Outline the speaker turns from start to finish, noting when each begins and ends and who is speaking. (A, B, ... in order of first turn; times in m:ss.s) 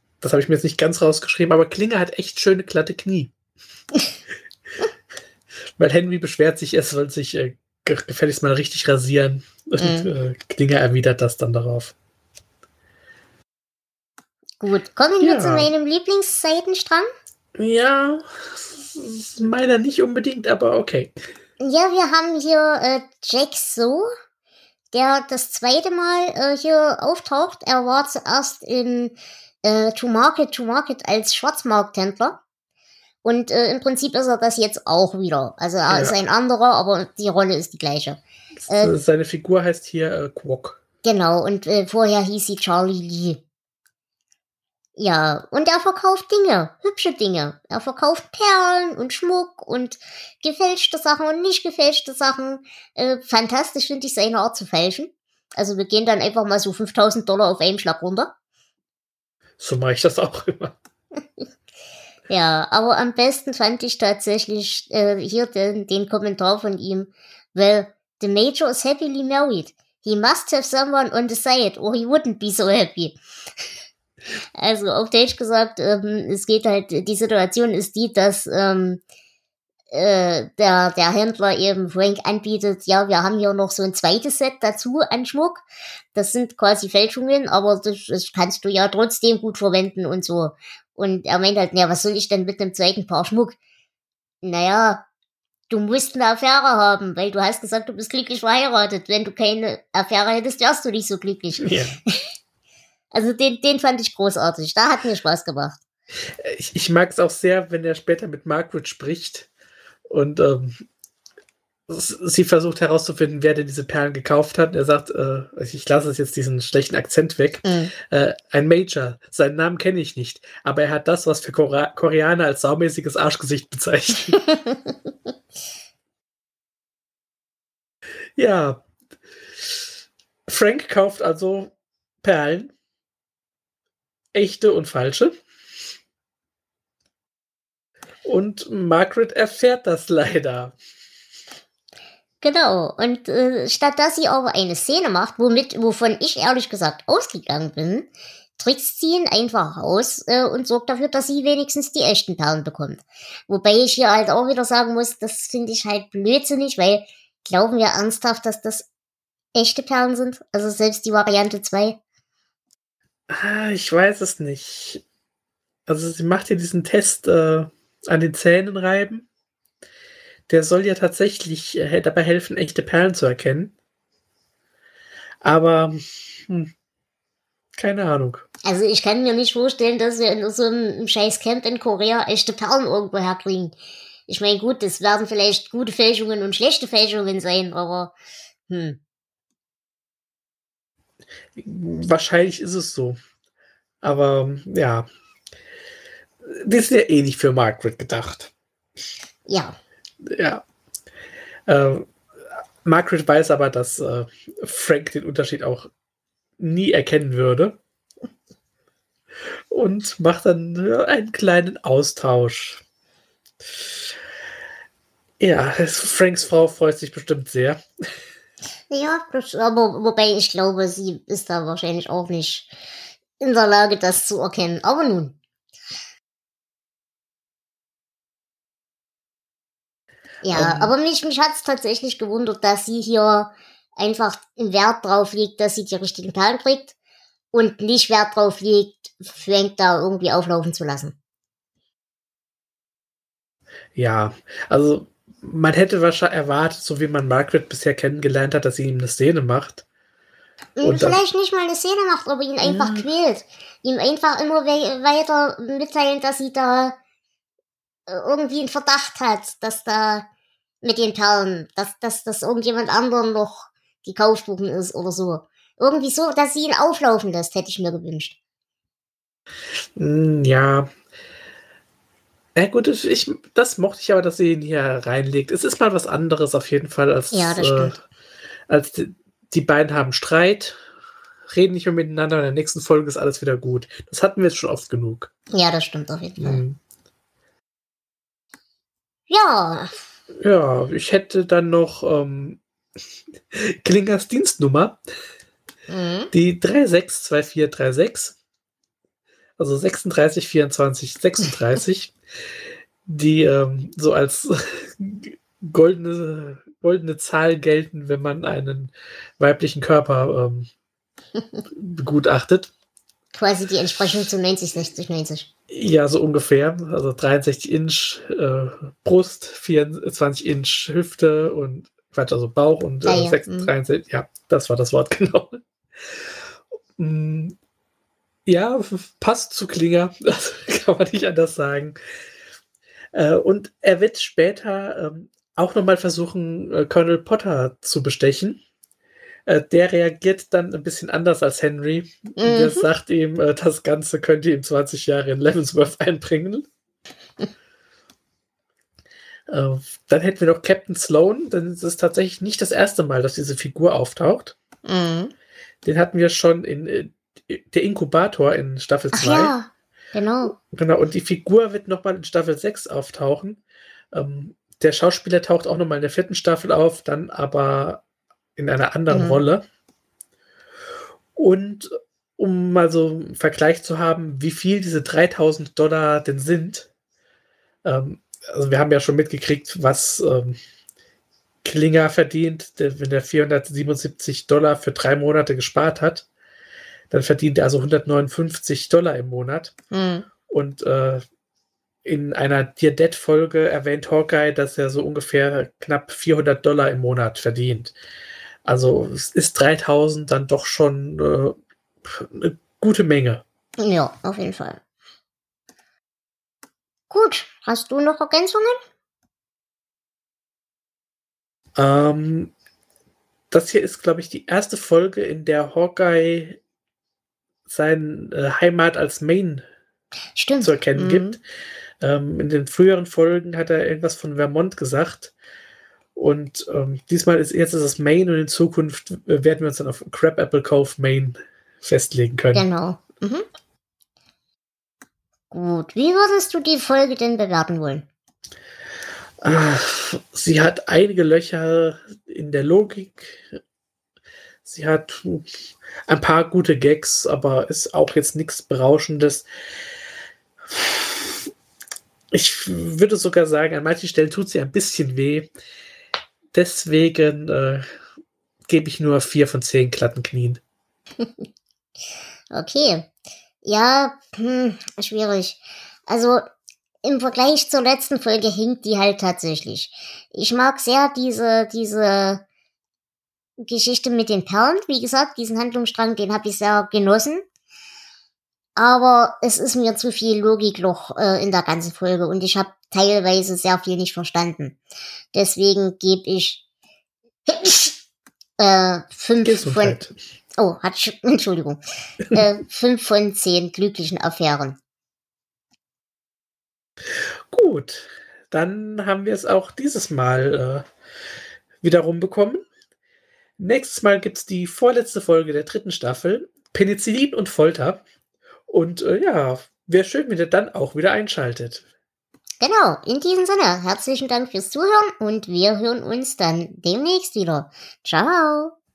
0:00.2-0:03.3 A
0:05.8-0:11.9 A
0:09.8-0:10.1 B
0:14.6-0:17.1 B
0:15.2-0:15.7 A
0:17.6-0:21.1 A
0:21.6-0:24.1 B
0:24.9-0:32.4 B
0:33.2-0:38.9 B
0:35.9-0:36.2 A
0:38.7-0:40.8 A
0:41.0-0:43.4 B
0:45.0-0:58.3 B
0:59.6-1:00.8 A
1:02.3-1:13.2 B
1:14.6-1:19.0 B
1:19.9-1:33.6 B
1:34.4-1:35.0 B
1:35.7-1:42.2 B
1:41.6-1:41.9 A
1:43.1-1:45.8 B
1:46.4-1:49.5 A
1:50.1-1:50.8 A
1:51.9-2:04.4 A
1:57.6-1:57.9 B
2:08.4-2:08.8 A
2:10.5-2:12.7 A
2:14.3-2:15.3 A
2:18.2-2:20.8 A
2:22.4-2:38.9 B
2:39.5-2:42.0 B
2:43.3-2:45.0 A
2:45.9-2:49.3 A
2:50.5-2:53.7 A
2:55.4-2:56.7 A
2:57.8-2:58.4 A
2:58.6-3:03.8 B
3:04.3-3:08.2 B
3:08.7-3:09.0 B
3:11.6-3:13.2 A
3:14.0-3:15.1 A
3:16.4-3:18.5 A
3:19.5-3:19.8 B
3:20.2-3:20.6 A
3:21.7-3:22.1 A
3:22.8-3:25.9 A
3:26.6-3:27.8 A
3:29.7-3:32.8 A
3:35.4-3:37.8 A
3:38.9-3:42.7 B
3:43.4-3:45.4 B
3:50.4-3:56.9 B
3:50.5-3:50.9 A
3:57.5-4:01.1 B
4:03.9-4:09.8 A
4:10.8-4:17.0 B
4:10.8-4:11.2 A
4:12.6-4:13.0 A
4:18.1-4:20.2 B
4:20.8-4:28.4 B
4:30.0-4:30.9 A
4:32.6-4:38.0 A
4:37.3-4:38.0 B
4:38.7-4:40.8 A
4:41.5-4:45.3 A
4:45.5-4:46.6 B
4:46.4-4:46.8 A
4:49.3-4:49.9 B
4:50.4-4:52.6 A
4:53.5-4:55.0 A
4:55.9-4:56.3 B
4:56.3-4:58.4 A
4:59.6-5:02.1 A
5:03.0-5:10.7 A
5:11.8-5:12.7 A
5:13.3-5:15.5 B
5:15.7-5:26.3 A
5:23.0-5:23.7 B
5:27.0-5:27.6 A
5:28.4-5:32.0 A
5:33.1-5:38.6 A
5:39.5-5:46.6 A
5:42.4-5:42.9 B
5:49.5-5:54.6 A
5:54.8-5:55.3 B
5:55.8-5:59.5 A
5:59.1-6:00.5 B
6:00.6-6:08.0 A
6:08.6-6:09.6 A
6:09.1-6:09.4 B
6:11.4-6:16.9 A
6:17.8-6:20.6 A
6:21.6-6:26.3 A
6:27.1-6:29.7 A
6:29.9-6:30.2 B
6:30.5-6:31.2 A
6:32.0-6:37.9 A
6:38.6-6:43.4 A
6:43.8-6:44.8 B
6:47.1-6:48.8 B
6:51.8-6:52.5 A
6:53.5-6:56.6 A
6:57.7-6:59.6 A
7:00.4-7:01.4 B
7:00.6-7:01.4 A
7:02.0-7:05.3 A
7:06.1-7:12.6 A
7:12.5-7:13.4 B
7:15.5-7:18.0 B
7:19.4-7:23.5 A
7:24.6-7:25.5 A
7:26.1-7:29.5 A
7:30.7-7:31.4 A
7:32.3-7:35.5 A
7:36.5-7:37.8 A
7:38.7-7:40.6 A
7:42.5-7:43.1 B
7:43.6-7:46.4 B
7:47.0-7:52.4 B
7:53.6-7:57.4 B
7:58.8-8:04.8 B
8:05.3-8:06.6 B
8:07.4-8:08.0 B
8:08.6-8:10.0 B
8:09.4-8:10.1 A
8:10.6-8:14.8 B
8:17.5-8:20.9 A
8:21.8-8:22.6 A
8:23.6-8:28.0 A
8:28.7-8:31.8 A
8:32.6-8:38.7 B